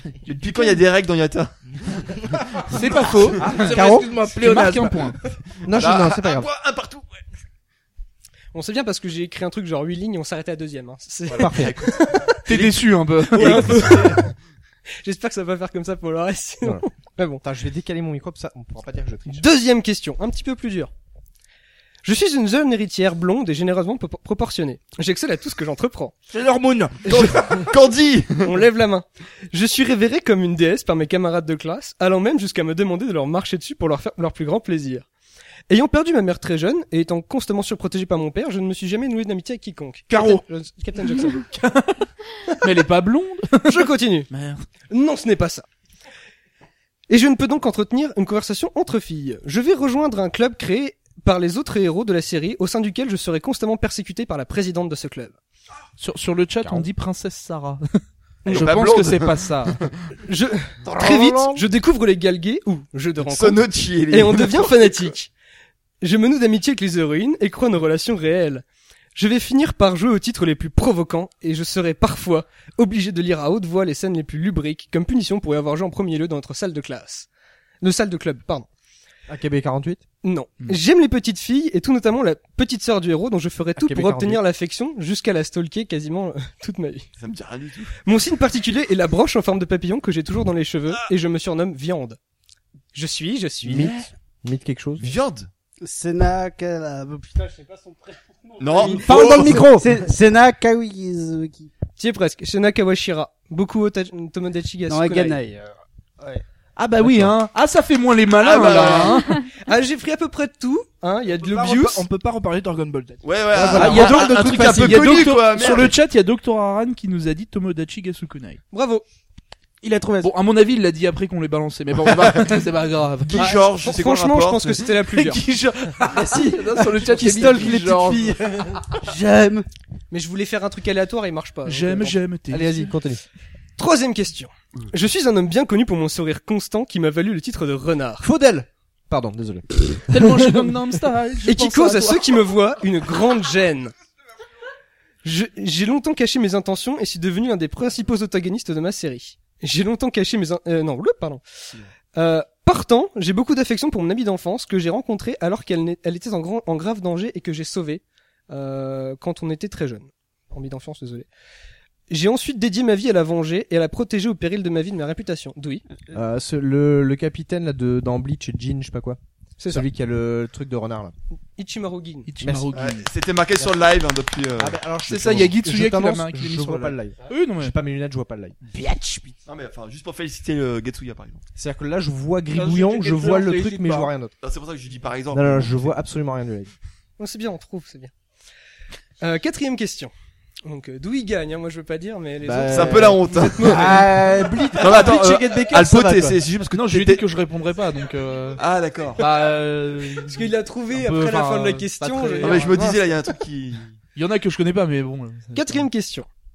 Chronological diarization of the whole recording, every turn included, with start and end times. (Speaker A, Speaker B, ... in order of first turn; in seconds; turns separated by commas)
Speaker A: 0.2-3.5, Speaker B: 2.7-5.2, Speaker C: 3.4-4.1, Speaker D: 3.4-5.2, Speaker C: 5.6-6.5, Speaker A: 5.7-7.2, Speaker E: 8.5-12.6, Speaker A: 11.3-12.7, Speaker C: 11.3-11.9, Speaker B: 12.5-13.9, Speaker E: 13.3-14.3, Speaker A: 13.4-14.1, Speaker E: 15.0-17.4, Speaker C: 17.4-19.5, Speaker E: 19.3-20.9, Speaker E: 22.0-26.1, Speaker D: 26.3-27.7, Speaker A: 27.1-28.6, Speaker E: 28.4-35.0, Speaker E: 35.7-41.5, Speaker B: 41.5-42.1, Speaker B: 42.6-44.6, Speaker E: 43.7-44.3, Speaker E: 44.9-45.6, Speaker E: 47.1-55.4, Speaker B: 56.0-59.8, Speaker E: 58.4-58.7, Speaker A: 58.5-60.2, Speaker E: 60.3-65.3, Speaker A: 60.9-61.5, Speaker A: 63.2-65.1, Speaker E: 66.0-77.3, Speaker E: 77.8-78.7, Speaker C: 79.3-80.0, Speaker E: 80.2-87.1, Speaker C: 83.8-84.4, Speaker A: 87.2-88.0, Speaker E: 88.0-92.2, Speaker E: 92.9-94.0, Speaker C: 93.6-95.1, Speaker A: 93.7-94.1, Speaker A: 95.0-95.5, Speaker F: 95.8-101.7, Speaker A: 98.6-99.7, Speaker C: 98.8-99.9, Speaker E: 102.0-105.4, Speaker F: 104.9-106.4, Speaker B: 106.8-109.4, Speaker A: 108.4-109.4, Speaker E: 109.6-112.0, Speaker D: 111.2-113.3, Speaker A: 113.2-115.9, Speaker C: 113.5-115.1, Speaker B: 113.6-118.6, Speaker E: 118.7-119.0, Speaker F: 119.8-120.2, Speaker C: 119.9-120.3, Speaker B: 120.2-123.5, Speaker A: 123.3-124.9, Speaker E: 123.3-125.4, Speaker B: 125.1-128.4, Speaker C: 126.1-128.9, Speaker F: 127.3-127.7, Speaker F: 129.0-129.7, Speaker E: 130.1-132.2, Speaker B: 131.6-132.8, Speaker C: 132.5-133.2, Speaker E: 133.8-138.2, Speaker C: 138.2-140.3, Speaker B: 140.1-142.3, Speaker E: 141.4-143.9, Speaker E: 145.2-151.4, Speaker E: 152.1-161.3, Speaker E: 162.1-165.8, Speaker C: 166.1-169.2, Speaker E: 169.6-169.8, Speaker C: 169.7-171.1, Speaker E: 171.6-172.3, Speaker B: 172.3-173.1, Speaker C: 172.4-172.7, Speaker A: 172.7-174.8, Speaker C: 174.6-178.6, Speaker B: 175.1-177.8, Speaker A: 179.4-181.4, Speaker C: 181.6-184.3, Speaker D: 182.5-184.1, Speaker A: 184.4-185.8, Speaker C: 185.3-186.7, Speaker E: 187.2-188.1, Speaker E: 189.2-190.1, Speaker E: 190.6-193.9, Speaker C: 192.4-195.5, Speaker A: 192.7-194.0, Speaker A: 194.8-197.2, Speaker B: 194.9-198.6, Speaker A: 198.6-199.3, Speaker B: 199.2-202.8, Speaker E: 200.2-203.0, Speaker A: 202.4-203.9, Speaker B: 204.1-205.9, Speaker E: 205.5-206.3